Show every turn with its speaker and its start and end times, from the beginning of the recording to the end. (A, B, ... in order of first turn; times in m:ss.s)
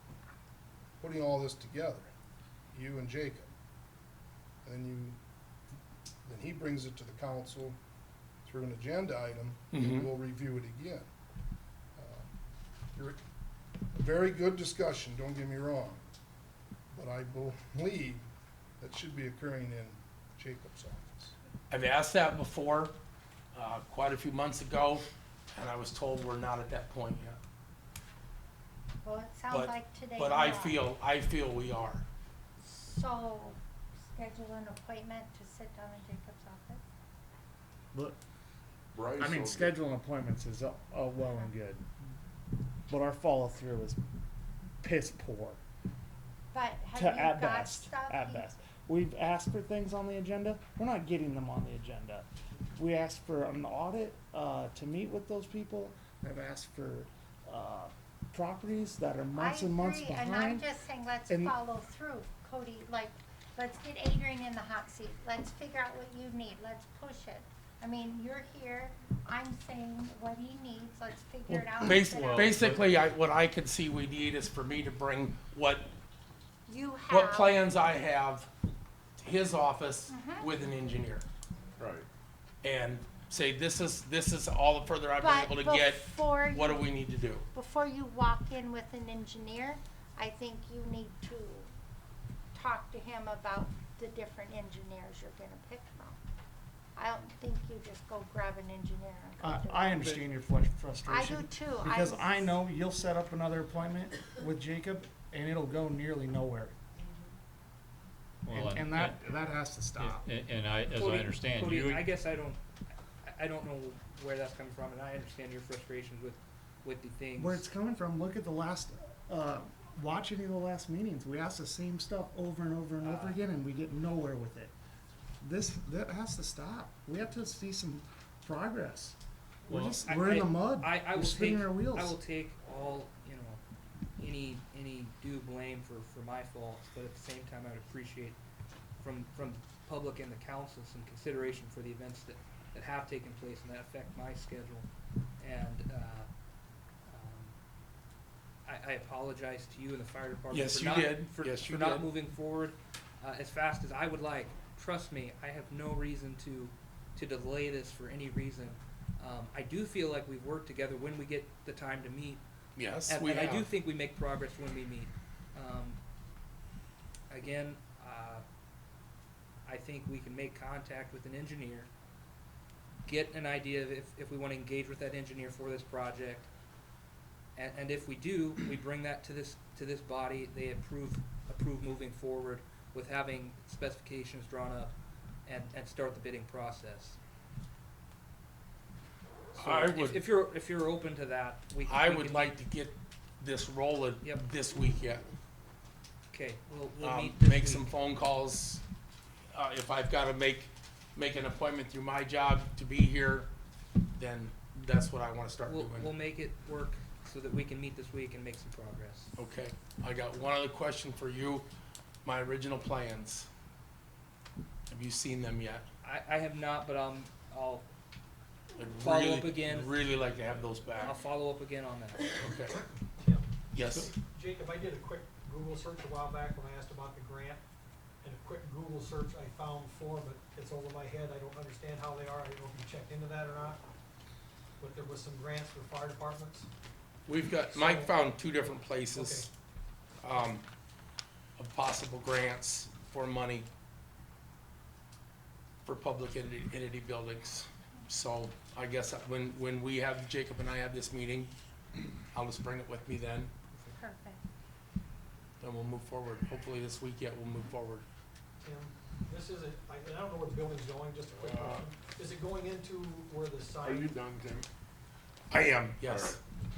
0:01.0-0:02.1 A
0:02.7-0:03.5 A
0:04.6-0:05.2 A
0:06.2-0:07.8 A
0:08.4-0:11.1 A
0:09.7-0:10.1 B
0:12.0-0:12.3 A
0:13.9-0:16.0 A
0:16.9-0:18.2 A
0:18.8-0:21.3 A
0:21.7-0:22.9 B
0:23.5-0:27.4 B
0:29.0-0:30.8 C
0:29.5-0:32.0 B
0:32.6-0:33.6 C
0:34.1-0:36.8 C
0:37.9-0:38.2 D
0:38.9-0:39.8 E
0:39.2-0:41.8 D
0:42.9-0:44.0 D
0:44.8-0:45.6 D
0:46.5-0:48.5 C
0:46.9-1:00.6 D
0:59.4-1:12.7 C
1:01.3-1:01.6 D
1:11.5-1:12.0 D
1:11.8-1:15.9 B
1:12.0-1:12.8 F
1:16.7-1:17.6 C
1:17.1-1:18.5 B
1:19.2-1:21.2 B
1:20.1-1:20.5 C
1:21.8-1:22.0 E
1:22.6-1:27.4 B
1:25.2-1:26.8 C
1:27.5-1:31.7 C
1:32.5-1:36.2 C
1:37.0-1:40.0 C
1:39.4-1:46.8 D
1:41.1-1:42.6 C
1:48.4-1:49.2 F
1:48.5-1:50.3 D
1:50.0-1:52.1 F
1:50.9-1:52.6 G
1:53.2-1:57.6 G
1:57.4-2:04.7 D
2:03.0-2:03.4 G
2:05.4-2:12.2 D
2:09.7-2:10.0 F
2:10.0-2:13.6 G
2:14.2-2:18.4 G
2:19.0-2:26.3 G
2:27.0-2:27.5 G
2:28.6-2:42.4 G
2:30.5-2:32.0 B
2:42.8-2:43.7 B
2:43.1-2:46.0 G
2:47.3-2:48.4 G
2:49.6-2:51.9 G
2:53.0-2:56.5 G
2:57.5-3:07.2 G
3:09.5-3:10.2 B
3:09.5-3:12.6 G
3:11.9-3:15.2 B
3:16.3-3:17.9 G
3:17.0-3:18.8 B
3:19.5-3:23.5 B
3:24.1-3:26.1 B
3:25.6-3:29.3 G
3:29.4-3:31.6 B
3:32.2-3:33.5 B
3:34.9-3:35.8 B
3:36.0-3:37.8 G
3:38.8-3:41.2 B
3:39.0-3:42.4 G
3:42.4-3:42.8 B
3:43.2-3:47.6 H
3:43.7-3:44.1 B
3:48.2-3:53.8 H
3:54.8-3:56.7 H
3:57.3-3:59.5 B
3:57.7-3:58.1 H
3:59.1-3:59.5 H
4:00.2-4:00.6 B
4:01.6-4:03.7 B
4:05.8-4:11.5 B
4:12.3-4:13.5 B
4:14.0-4:14.4 C
4:15.6-4:18.0 B
4:18.6-4:24.2 H
4:21.3-4:21.8 E
4:23.8-4:24.7 E
4:25.5-4:26.4 B
4:26.0-4:26.4 E